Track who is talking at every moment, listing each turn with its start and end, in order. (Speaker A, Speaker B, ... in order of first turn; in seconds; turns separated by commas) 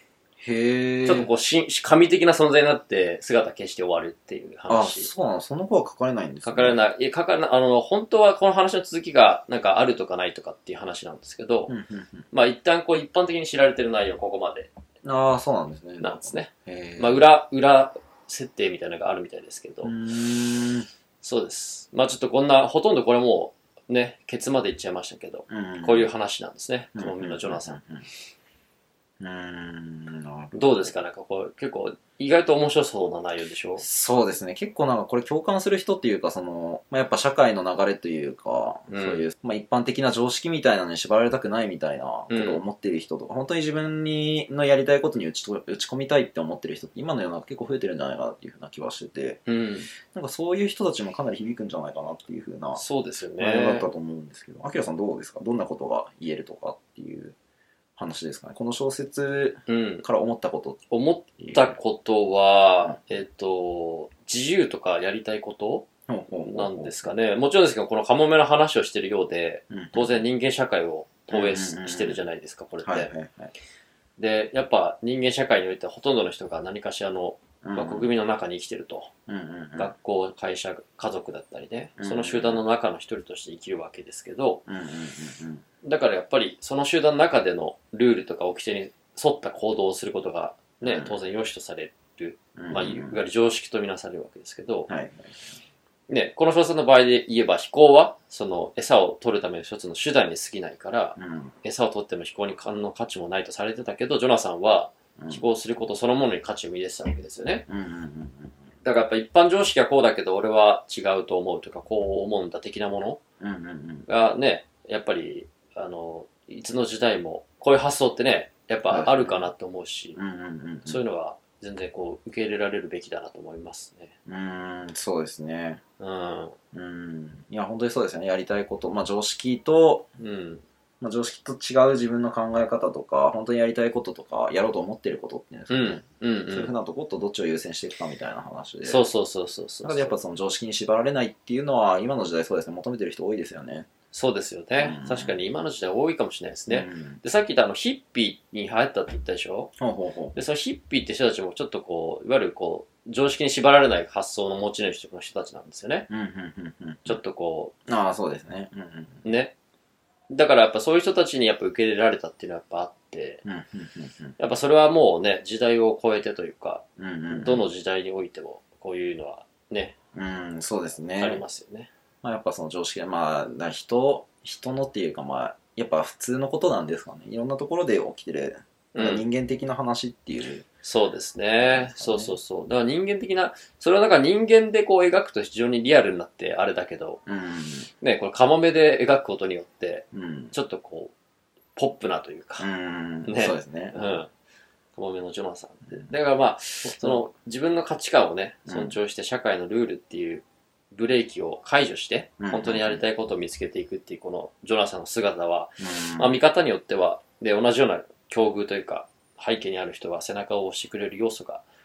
Speaker A: 0.4-1.3, Speaker B: 1.1-5.1, Speaker A: 4.7-6.8, Speaker B: 6.4-11.7, Speaker A: 11.7-12.3, Speaker B: 12.3-14.7, Speaker A: 15.0-17.2, Speaker B: 16.0-19.9, Speaker A: 19.8-20.9, Speaker B: 21.2-27.8, Speaker A: 25.5-26.1, Speaker A: 26.9-28.1, Speaker A: 29.2-30.9, Speaker B: 30.5-33.9, Speaker A: 33.8-49.4, Speaker B: 38.9-39.2, Speaker B: 42.3-42.6, Speaker B: 49.5-49.9, Speaker A: 50.0-52.8, Speaker B: 52.8-53.9, Speaker A: 53.4-57.4, Speaker A: 58.0-60.8, Speaker B: 59.7-60.0, Speaker B: 60.9-65.9, Speaker A: 61.4-61.8, Speaker A: 66.1-67.1, Speaker B: 66.5-73.1, Speaker A: 69.7-70.2, Speaker A: 71.3-72.2, Speaker A: 72.8-73.5, Speaker B: 74.2-79.1, Speaker A: 77.6-78.1, Speaker A: 79.3-79.9, Speaker B: 79.8-84.6, Speaker A: 82.0-82.6, Speaker A: 84.7-85.6, Speaker B: 85.8-94.9, Speaker A: 90.8-91.2, Speaker A: 92.6-93.2, Speaker A: 94.9-95.4, Speaker B: 96.1-107.7, Speaker A: 101.2-101.5, Speaker A: 105.2-105.4, Speaker A: 107.7-108.6, Speaker B: 108.8-113.2, Speaker A: 113.4-114.1, Speaker B: 114.1-120.2, Speaker A: 118.9-119.5, Speaker A: 120.2-121.0, Speaker B: 120.8-124.1, Speaker A: 124.3-125.8, Speaker B: 126.0-126.6, Speaker A: 126.7-130.1, Speaker B: 130.2-130.6, Speaker A: 131.0-139.0, Speaker B: 135.7-136.7, Speaker B: 138.8-140.2, Speaker A: 139.8-143.9, Speaker B: 144.1-149.7, Speaker A: 144.8-145.4, Speaker A: 146.7-147.2, Speaker A: 149.8-150.4, Speaker B: 150.3-156.1, Speaker A: 156.1-157.2, Speaker B: 157.1-157.7, Speaker A: 157.9-159.2, Speaker B: 159.2-159.6, Speaker B: 160.3-163.4, Speaker A: 163.4-164.4, Speaker B: 164.4-170.0, Speaker A: 167.0-167.7, Speaker A: 170.1-171.4, Speaker B: 171.2-171.9, Speaker A: 172.2-180.7, Speaker B: 178.9-179.2, Speaker B: 180.8-187.2, Speaker A: 181.6-182.4, Speaker A: 187.3-187.9, Speaker B: 188.0-191.1, Speaker A: 190.1-190.6, Speaker B: 191.8-192.7, Speaker A: 192.6-194.2, Speaker B: 193.2-194.3, Speaker B: 195.0-211.6, Speaker A: 196.8-197.3, Speaker A: 198.7-199.0, Speaker A: 202.4-203.0, Speaker A: 205.8-206.3